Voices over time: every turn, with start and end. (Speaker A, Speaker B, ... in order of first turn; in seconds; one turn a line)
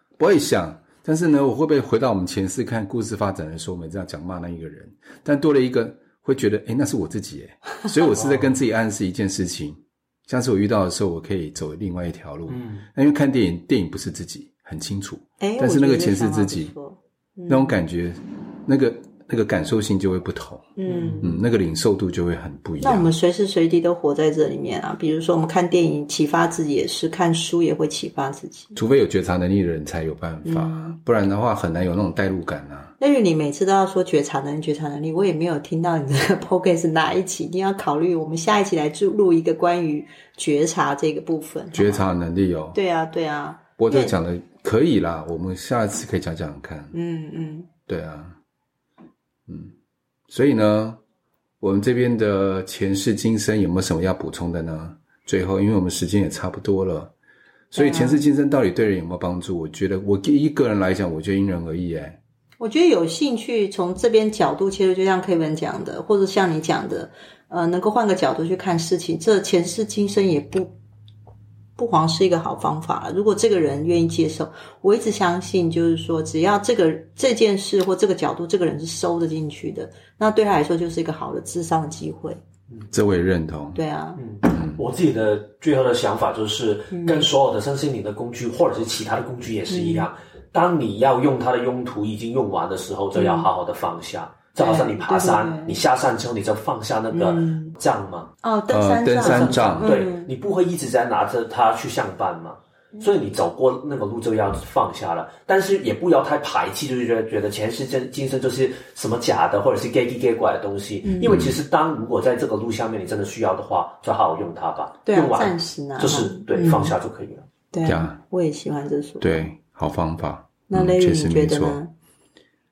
Speaker A: 0.2-16.7
Speaker B: 8.1-8.6
Speaker B: 12.5-12.8
Speaker C: 15.4-17.8
Speaker A: 17.5-20.7
Speaker C: 20.8-21.3
Speaker B: 20.9-21.3
Speaker A: 21.2-23.1
Speaker C: 22.8-28.7
Speaker A: 28.7-32.9
Speaker C: 30.4-31.0
Speaker C: 33.0-42.1
Speaker A: 41.7-42.8
Speaker C: 42.7-44.1
Speaker A: 43.8-46.9
Speaker C: 46.9-47.7
Speaker A: 47.9-48.4
Speaker A: 49.5-49.7
Speaker A: 50.3-51.0
Speaker A: 51.6-57.1
Speaker A: 57.7-62.2
Speaker C: 57.8-58.3
Speaker C: 62.6-70.7
Speaker C: 71.8-82.4
Speaker A: 82.9-83.8
Speaker C: 83.7-84.2
Speaker B: 84.2-98.3
Speaker A: 84.5-84.8
Speaker C: 86.9-87.3
Speaker C: 89.7-90.1
Speaker C: 93.1-93.5
Speaker C: 94.6-95.8
Speaker C: 97.1-97.8
Speaker C: 98.4-100.3
Speaker A: 98.7-99.9
Speaker B: 99.1-117.5
Speaker C: 111.0-111.3
Speaker A: 111.2-111.6
Speaker C: 115.0-117.0
Speaker C: 117.7-119.5
Speaker A: 117.8-118.2
Speaker A: 119.2-121.8
Speaker C: 120.7-121.9